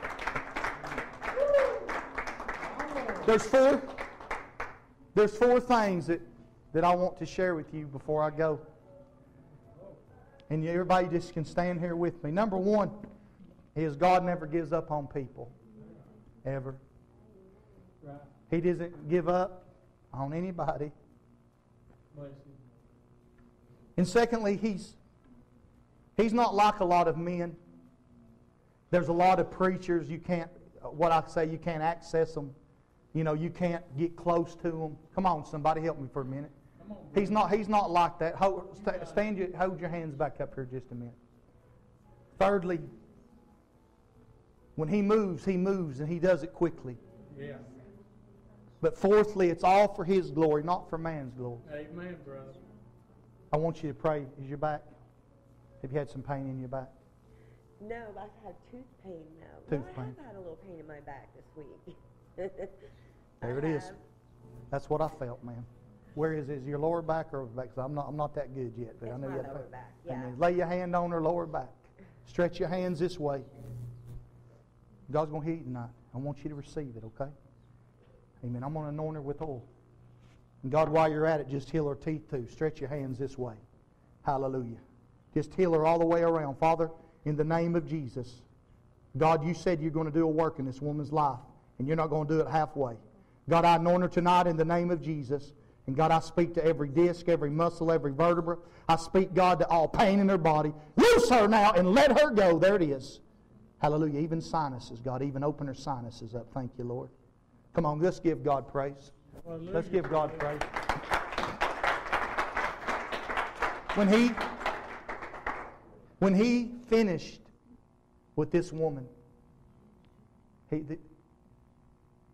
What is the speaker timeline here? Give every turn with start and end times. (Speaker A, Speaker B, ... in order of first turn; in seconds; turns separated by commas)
Speaker A: 3.1-4.0, Speaker A: 5.1-8.6, Speaker A: 10.5-13.0, Speaker A: 13.8-15.5, Speaker A: 16.4-16.8, Speaker A: 18.5-20.9, Speaker B: 22.1-22.6, Speaker A: 24.0-25.0, Speaker A: 26.2-27.6, Speaker A: 28.9-32.5, Speaker A: 33.1-36.5, Speaker B: 36.8-37.3, Speaker A: 37.1-41.2, Speaker A: 42.4-42.9, Speaker A: 44.8-47.0, Speaker B: 47.3-47.7, Speaker A: 48.8-51.7, Speaker B: 51.7-52.6, Speaker A: 53.5-54.9, Speaker A: 55.8-56.9, Speaker C: 57.8-62.8, Speaker A: 59.7-60.2, Speaker C: 63.4-64.0, Speaker A: 63.4-63.9, Speaker A: 64.7-73.5, Speaker C: 69.0-70.4, Speaker A: 75.1-77.3, Speaker A: 78.4-79.7, Speaker A: 80.6-83.6, Speaker A: 84.2-84.8, Speaker A: 85.3-88.5, Speaker A: 89.2-103.2, Speaker A: 103.8-107.1, Speaker A: 107.7-110.7, Speaker B: 109.5-110.3, Speaker A: 113.9-114.4, Speaker A: 116.2-117.5, Speaker A: 118.3-119.1, Speaker A: 120.7-121.0